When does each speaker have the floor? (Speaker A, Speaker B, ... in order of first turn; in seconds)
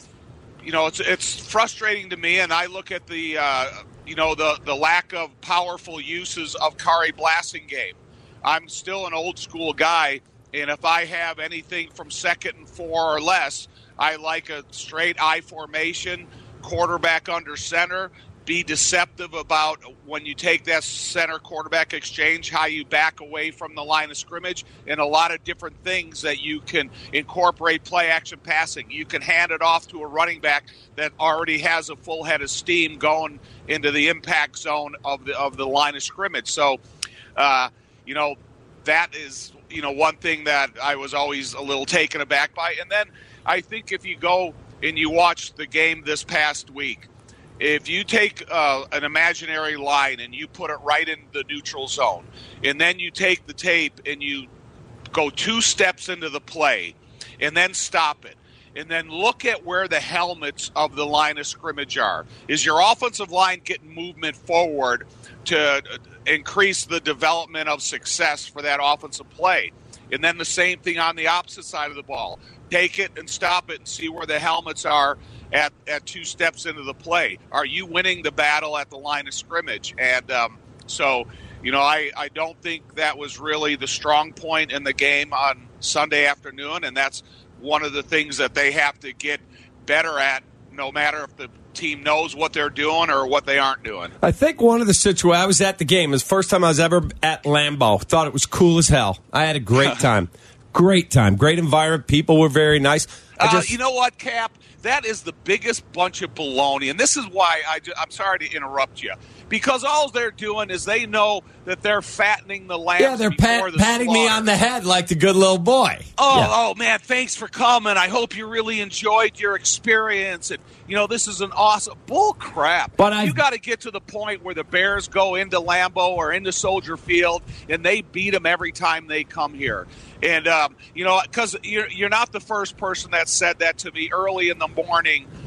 Speaker A: 0.6-36.8, 37.4-47.1, 47.6-54.5, 55.1-94.1, 103.4-114.5, 116.2-135.3
Speaker B: 94.2-103.7, 113.0-116.5, 123.0-123.4